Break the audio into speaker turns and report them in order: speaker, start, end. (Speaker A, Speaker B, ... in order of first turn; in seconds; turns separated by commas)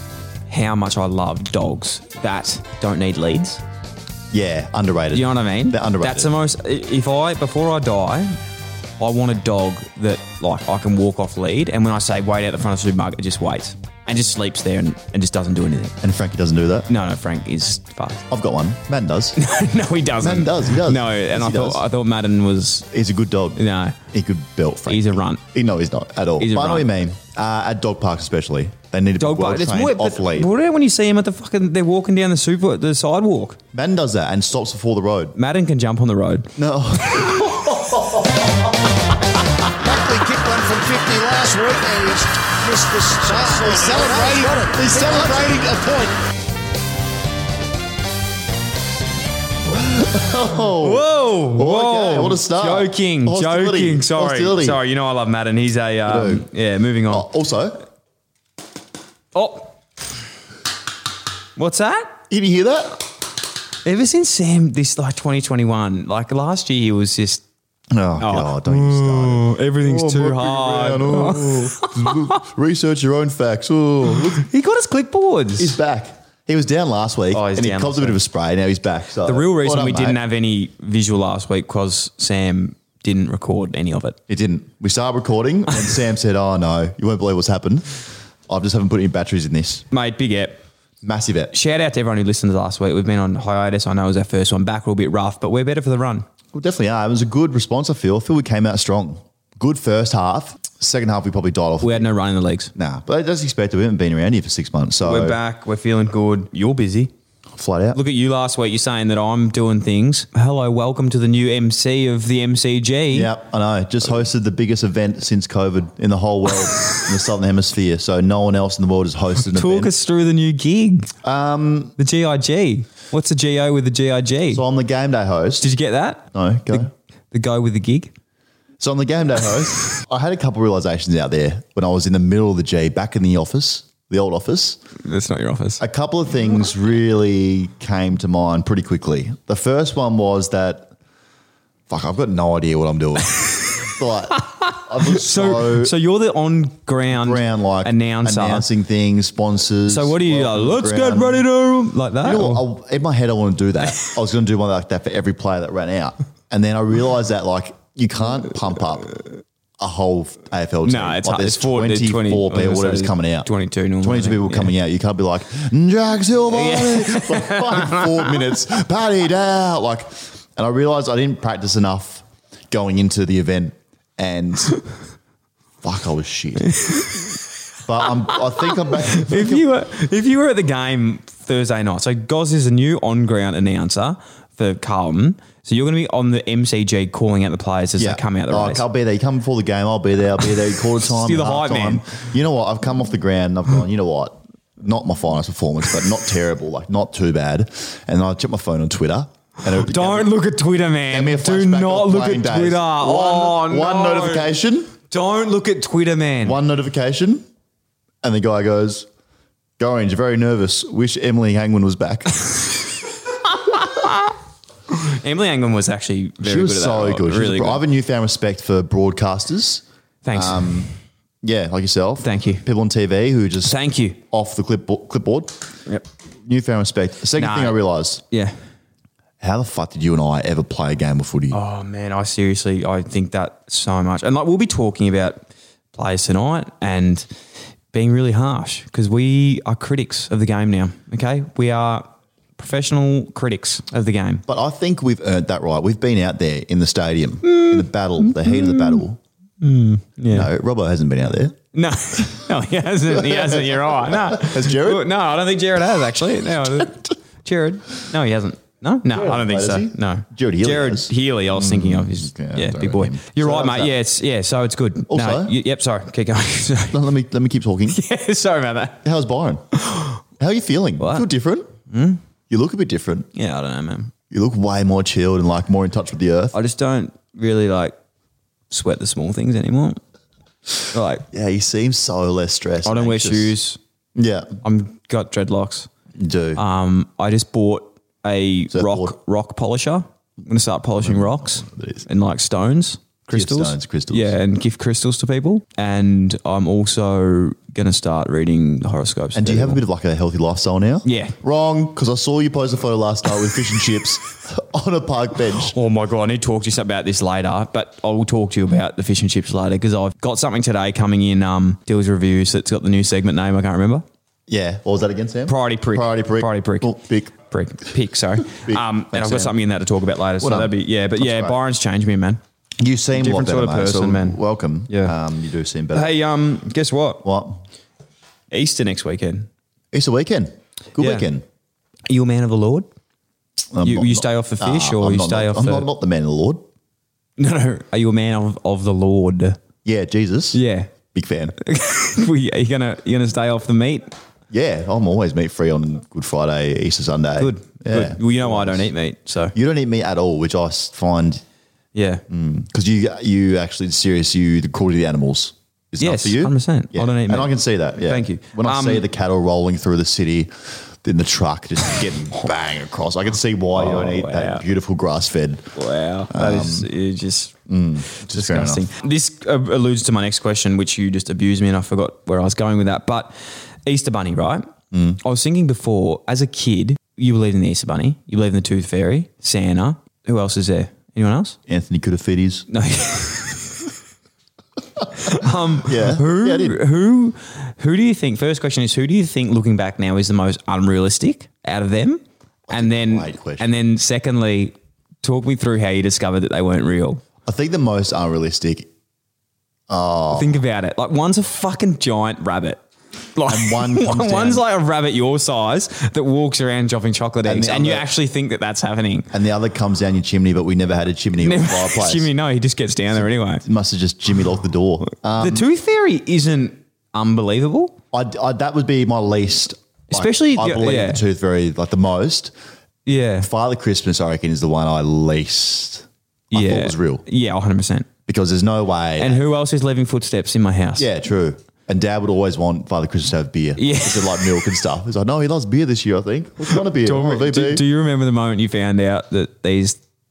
Speaker A: 0.5-3.6, Speaker B: 4.3-6.3, Speaker A: 5.1-8.3, Speaker A: 9.0-15.9, Speaker B: 16.0-16.9, Speaker A: 16.9-18.2, Speaker B: 18.3-19.4, Speaker A: 19.4-22.9, Speaker B: 20.2-21.8, Speaker B: 22.9-23.6, Speaker A: 23.6-24.0, Speaker B: 24.1-30.5, Speaker A: 24.9-25.4, Speaker A: 26.4-26.9, Speaker A: 29.2-33.6, Speaker B: 33.7-35.3, Speaker A: 35.3-36.5, Speaker B: 36.6-38.4, Speaker A: 37.2-37.5, Speaker C: 39.8-46.1, Speaker B: 43.3-45.6, Speaker B: 49.7-54.8, Speaker A: 50.8-57.3, Speaker B: 56.1-56.5, Speaker B: 57.1-57.8, Speaker A: 59.3-59.8, Speaker A: 61.5-62.1, Speaker B: 62.3-63.0, Speaker A: 63.8-67.4, Speaker B: 67.9-74.5, Speaker A: 68.2-72.4, Speaker A: 74.3-75.7, Speaker B: 75.6-80.2, Speaker A: 77.3-78.2, Speaker A: 79.2-84.2, Speaker B: 84.3-89.8, Speaker A: 89.9-90.6, Speaker B: 91.0-91.5, Speaker A: 91.5-96.2, Speaker B: 96.5-102.1, Speaker A: 101.8-102.7, Speaker B: 102.7-105.4, Speaker A: 105.0-107.1, Speaker B: 107.5-108.0, Speaker A: 107.9-113.3, Speaker B: 113.1-119.9, Speaker A: 119.5-121.1, Speaker B: 121.2-121.9, Speaker A: 122.0-124.6, Speaker B: 124.5-125.7, Speaker A: 125.6-128.1, Speaker B: 126.3-126.9, Speaker B: 128.8-134.8, Speaker A: 135.0-135.8, Speaker B: 135.8-140.9, Speaker B: 141.9-145.9, Speaker A: 144.3-148.7, Speaker B: 147.1-151.4, Speaker A: 149.9-152.6, Speaker B: 152.2-159.2, Speaker B: 159.8-163.5, Speaker A: 160.8-164.7, Speaker B: 164.0-174.8, Speaker A: 166.5-168.4, Speaker B: 175.8-176.8, Speaker A: 176.7-177.3, Speaker B: 177.8-179.7, Speaker A: 178.7-188.8, Speaker B: 188.0-200.3, Speaker A: 191.0-192.0, Speaker A: 199.7-204.5, Speaker B: 201.1-204.9, Speaker A: 205.1-206.6, Speaker B: 206.4-207.4, Speaker B: 208.2-209.1, Speaker B: 209.8-212.5, Speaker A: 213.4-214.3, Speaker A: 214.9-217.8, Speaker B: 216.4-220.9, Speaker A: 220.2-220.9, Speaker B: 221.4-225.6, Speaker A: 222.2-222.6, Speaker A: 223.6-224.2, Speaker B: 226.4-228.2, Speaker A: 227.4-227.8, Speaker B: 229.4-231.6, Speaker A: 231.5-237.3, Speaker A: 237.9-244.4, Speaker B: 244.5-249.2, Speaker A: 247.4-249.0, Speaker A: 249.6-250.5, Speaker B: 250.3-251.6, Speaker A: 251.7-267.0, Speaker B: 253.1-255.1, Speaker B: 259.1-263.9, Speaker B: 265.1-265.5, Speaker B: 266.9-268.0, Speaker A: 267.9-269.0, Speaker B: 269.0-269.6, Speaker A: 269.8-270.2, Speaker B: 270.4-271.7, Speaker A: 271.0-271.3, Speaker A: 271.9-272.2, Speaker B: 272.5-273.3, Speaker A: 273.3-274.1, Speaker B: 274.3-276.6, Speaker A: 276.5-277.9, Speaker A: 278.7-280.0, Speaker A: 280.9-281.2, Speaker B: 281.3-283.5, Speaker A: 282.8-283.8, Speaker B: 284.1-284.6, Speaker A: 284.6-285.9, Speaker B: 286.2-286.6, Speaker A: 286.6-299.8, Speaker B: 288.7-289.1, Speaker B: 291.0-292.1, Speaker B: 293.3-294.4, Speaker B: 299.4-305.7, Speaker A: 301.0-301.4, Speaker A: 305.6-314.0, Speaker B: 314.5-317.3, Speaker A: 315.5-322.4, Speaker B: 318.5-319.6, Speaker B: 320.4-321.6, Speaker B: 322.8-326.1, Speaker A: 323.1-325.1, Speaker A: 325.9-327.2, Speaker B: 327.2-327.6, Speaker A: 328.5-329.5, Speaker B: 329.9-331.4, Speaker A: 331.0-331.2, Speaker A: 332.1-332.9, Speaker B: 333.7-336.6, Speaker A: 333.8-335.9, Speaker A: 337.4-339.6, Speaker B: 339.8-340.6, Speaker A: 340.5-340.9, Speaker B: 341.1-341.5, Speaker A: 341.6-344.1, Speaker B: 344.5-348.9, Speaker A: 347.4-349.5, Speaker B: 349.5-351.4, Speaker A: 351.9-352.2, Speaker B: 352.3-365.7, Speaker A: 356.0-359.0, Speaker A: 363.7-364.6, Speaker A: 365.8-367.6, Speaker B: 366.3-366.9, Speaker B: 367.7-368.8, Speaker A: 368.1-373.3, Speaker A: 373.8-374.7, Speaker B: 374.9-375.2, Speaker A: 375.2-381.6, Speaker B: 381.7-382.7, Speaker A: 382.7-383.9, Speaker A: 385.1-397.2, Speaker B: 385.8-386.8, Speaker B: 392.7-393.7, Speaker B: 397.4-398.9, Speaker B: 399.9-400.6, Speaker A: 400.3-402.8, Speaker A: 403.3-409.3, Speaker B: 403.5-404.6, Speaker B: 407.4-408.1, Speaker B: 409.3-412.3, Speaker A: 411.4-413.6, Speaker B: 413.1-415.7, Speaker A: 415.4-418.0, Speaker B: 418.1-422.5, Speaker A: 420.1-421.2, Speaker A: 423.1-423.5, Speaker B: 423.4-427.2, Speaker A: 426.5-428.1, Speaker B: 428.3-429.4, Speaker A: 429.2-431.1, Speaker B: 431.0-437.8, Speaker A: 433.8-434.6, Speaker A: 436.7-440.0